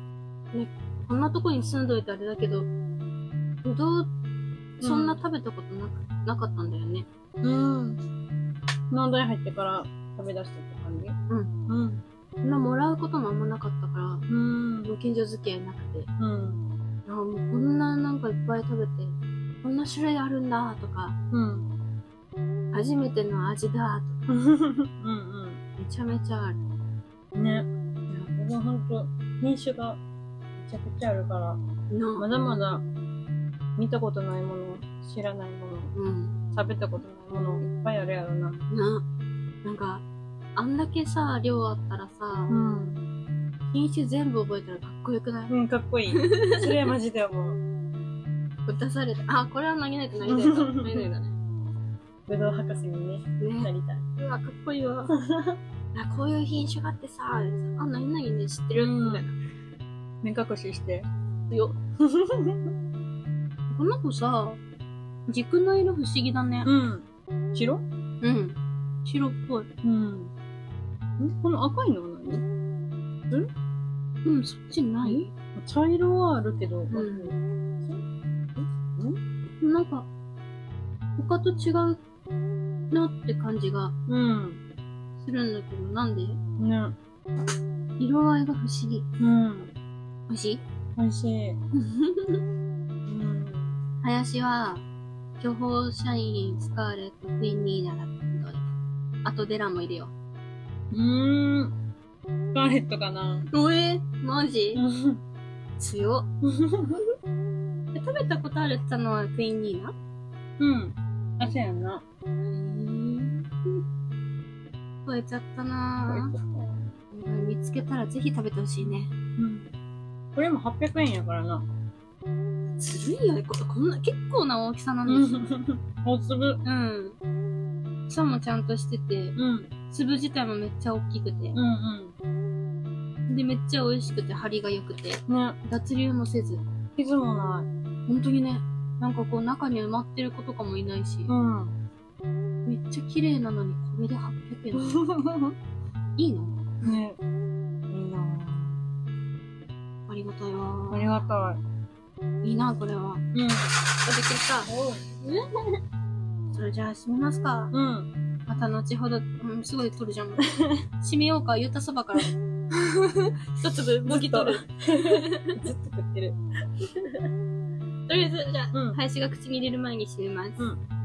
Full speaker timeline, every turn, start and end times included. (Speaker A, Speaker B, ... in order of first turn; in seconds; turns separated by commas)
Speaker A: 0.5-2.7, Speaker A: 3.6-4.1, Speaker B: 4.8-5.2, Speaker A: 4.8-7.1, Speaker B: 7.4-8.0, Speaker B: 8.9-11.2, Speaker B: 11.7-12.0, Speaker A: 12.4-14.2, Speaker B: 14.3-14.9, Speaker A: 14.8-16.1, Speaker B: 16.2-16.6, Speaker A: 17.1-21.1, Speaker B: 21.3-21.7, Speaker A: 22.7-24.2, Speaker B: 24.3-25.6, Speaker A: 25.8-26.6, Speaker B: 27.3-30.0, Speaker B: 30.6-31.6, Speaker A: 31.9-32.2, Speaker B: 32.2-32.8, Speaker B: 33.8-35.9, Speaker A: 35.9-36.4, Speaker B: 36.5-38.6, Speaker A: 38.7-39.0, Speaker A: 39.6-40.0, Speaker A: 40.5-42.6, Speaker B: 42.5-43.0, Speaker A: 43.7-45.5, Speaker B: 45.5-47.6, Speaker A: 46.1-46.9, Speaker A: 48.6-51.4, Speaker B: 50.2-51.1, Speaker B: 52.3-54.0, Speaker A: 53.4-55.1, Speaker A: 55.9-59.3, Speaker B: 58.7-59.2, Speaker B: 60.2-61.1, Speaker A: 61.5-61.8, Speaker B: 62.0-62.7, Speaker A: 63.7-64.6, Speaker A: 65.3-66.7, Speaker B: 66.6-67.8, Speaker A: 68.2-69.7, Speaker B: 69.8-70.3, Speaker B: 71.2-72.4, Speaker A: 74.2-75.3, Speaker B: 75.0-78.0, Speaker A: 76.9-77.3, Speaker B: 78.5-79.2, Speaker A: 79.6-80.1, Speaker A: 81.2-82.0, Speaker A: 82.9-83.9, Speaker B: 84.1-84.6, Speaker A: 85.2-86.4, Speaker B: 86.6-87.0, Speaker A: 88.0-89.1, Speaker B: 89.2-89.7, Speaker A: 90.3-90.6, Speaker B: 91.0-91.6, Speaker A: 91.7-92.4, Speaker B: 93.0-93.8, Speaker A: 94.0-94.8, Speaker A: 95.4-98.6, Speaker A: 99.2-100.1, Speaker B: 100.9-101.7, Speaker B: 102.5-103.5, Speaker A: 103.5-104.8, Speaker B: 104.7-105.2, Speaker A: 105.8-106.3, Speaker B: 106.5-107.0, Speaker A: 107.9-109.9, Speaker B: 110.6-112.0, Speaker A: 112.5-113.8, Speaker A: 115.0-116.3, Speaker B: 116.1-116.9, Speaker A: 117.1-119.1, Speaker B: 118.8-119.7, Speaker B: 120.3-121.6, Speaker A: 122.7-125.4, Speaker B: 125.0-126.6, Speaker A: 126.6-127.2, Speaker A: 128.1-129.3, Speaker B: 129.3-129.7, Speaker A: 129.9-131.6, Speaker B: 131.5-132.1, Speaker A: 133.3-136.6, Speaker B: 135.3-135.6, Speaker B: 136.9-137.7, Speaker A: 138.1-141.3, Speaker B: 141.3-141.7, Speaker A: 142.6-145.0, Speaker B: 144.8-145.5, Speaker A: 146.2-146.9, Speaker B: 146.8-147.2, Speaker B: 147.9-148.8, Speaker A: 150.1-151.2, Speaker B: 150.9-151.6, Speaker A: 152.4-153.2, Speaker B: 153.3-153.7, Speaker A: 154.0-154.7, Speaker B: 154.7-155.1, Speaker A: 155.2-155.7, Speaker A: 156.5-157.7, Speaker B: 157.7-158.1, Speaker A: 158.5-165.6, Speaker B: 164.1-166.8, Speaker A: 168.1-170.6, Speaker B: 168.7-169.0